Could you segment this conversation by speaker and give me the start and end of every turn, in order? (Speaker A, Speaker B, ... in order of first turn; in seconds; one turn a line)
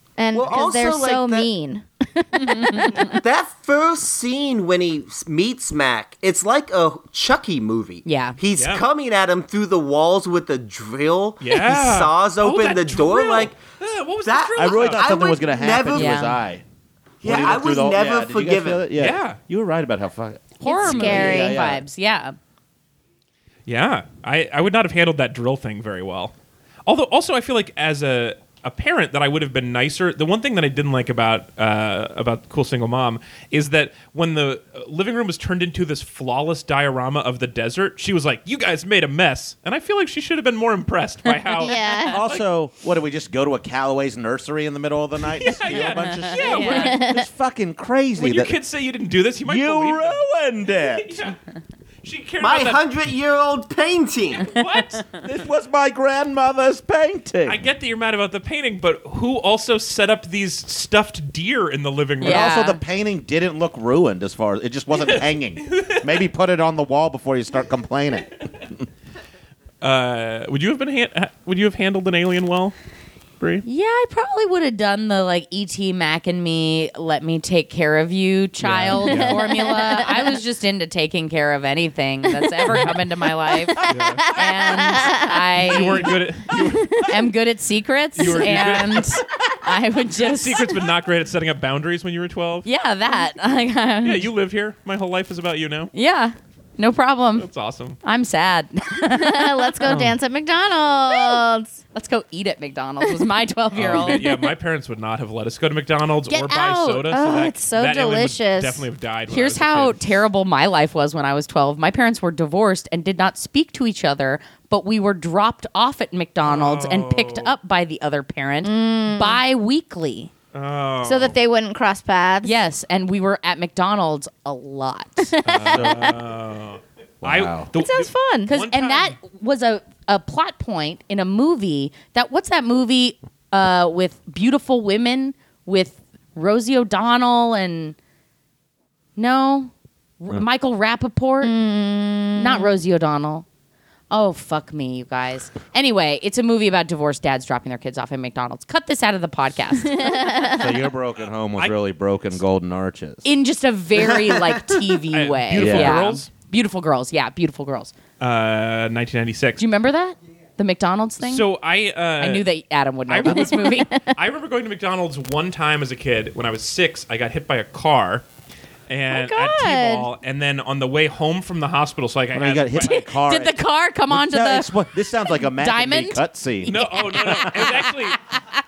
Speaker A: 0.2-3.1
Speaker B: 0.3-1.5
Speaker C: 2.4-3.1
Speaker B: 3.0-13.6
Speaker C: 8.0-8.4
Speaker D: 8.6-8.8
Speaker D: 11.4-15.1
Speaker B: 14.2-16.2
Speaker E: 14.6-16.6
Speaker C: 15.9-16.4
Speaker B: 17.2-18.9
Speaker E: 17.2-21.8
Speaker D: 18.9-19.4
Speaker C: 20.6-22.4
Speaker A: 20.6-21.6
Speaker D: 23.7-26.3
Speaker D: 26.9-42.4
Speaker A: 41.6-42.2
Speaker E: 42.0-48.5
Speaker D: 45.4-47.0
Speaker C: 46.2-47.0
Speaker A: 46.6-47.3
Speaker D: 48.2-51.4
Speaker E: 49.4-51.1
Speaker D: 52.0-52.8
Speaker B: 52.4-54.5
Speaker D: 54.4-55.1
Speaker E: 55.1-57.6
Speaker D: 57.5-62.5
Speaker C: 62.2-62.8
Speaker E: 62.2-68.5
Speaker D: 64.9-66.2
Speaker D: 69.8-72.7
Speaker C: 73.6-86.2
Speaker D: 78.6-79.6
Speaker A: 79.4-80.4
Speaker D: 82.7-82.9
Speaker D: 83.9-84.3
Speaker A: 84.3-86.0
Speaker D: 85.6-87.1
Speaker A: 86.7-87.0
Speaker C: 87.0-90.7
Speaker D: 88.2-89.2
Speaker D: 90.1-92.7
Speaker C: 92.6-94.3
Speaker D: 94.0-95.9
Speaker C: 95.9-97.5
Speaker D: 97.4-98.0
Speaker C: 98.0-99.9
Speaker A: 99.1-101.8
Speaker D: 99.8-100.2
Speaker C: 101.1-101.4
Speaker C: 101.9-104.5
Speaker D: 103.7-110.0
Speaker A: 106.3-108.8
Speaker C: 106.5-106.8
Speaker C: 109.3-120.3
Speaker D: 116.4-117.5
Speaker A: 118.6-119.4
Speaker D: 120.5-121.4
Speaker A: 121.0-122.6
Speaker C: 122.4-125.8
Speaker A: 125.2-126.1
Speaker D: 125.4-129.2
Speaker E: 125.5-126.1
Speaker E: 127.2-127.7
Speaker A: 127.7-128.5
Speaker C: 128.5-137.9
Speaker C: 139.2-141.5
Speaker A: 141.4-142.8
Speaker C: 142.4-143.4
Speaker C: 144.1-150.4
Speaker A: 149.9-150.8
Speaker E: 150.5-153.3
Speaker C: 153.2-157.9
Speaker B: 154.1-154.8
Speaker D: 155.1-156.3
Speaker E: 155.5-156.1
Speaker D: 158.2-159.6
Speaker C: 159.6-161.5
Speaker D: 161.2-162.4
Speaker C: 162.2-164.0
Speaker D: 163.1-168.2
Speaker A: 163.3-164.1
Speaker D: 168.9-173.1
Speaker A: 169.1-170.1
Speaker E: 172.3-177.7
Speaker C: 172.8-174.7
Speaker C: 175.3-178.4
Speaker D: 176.6-178.2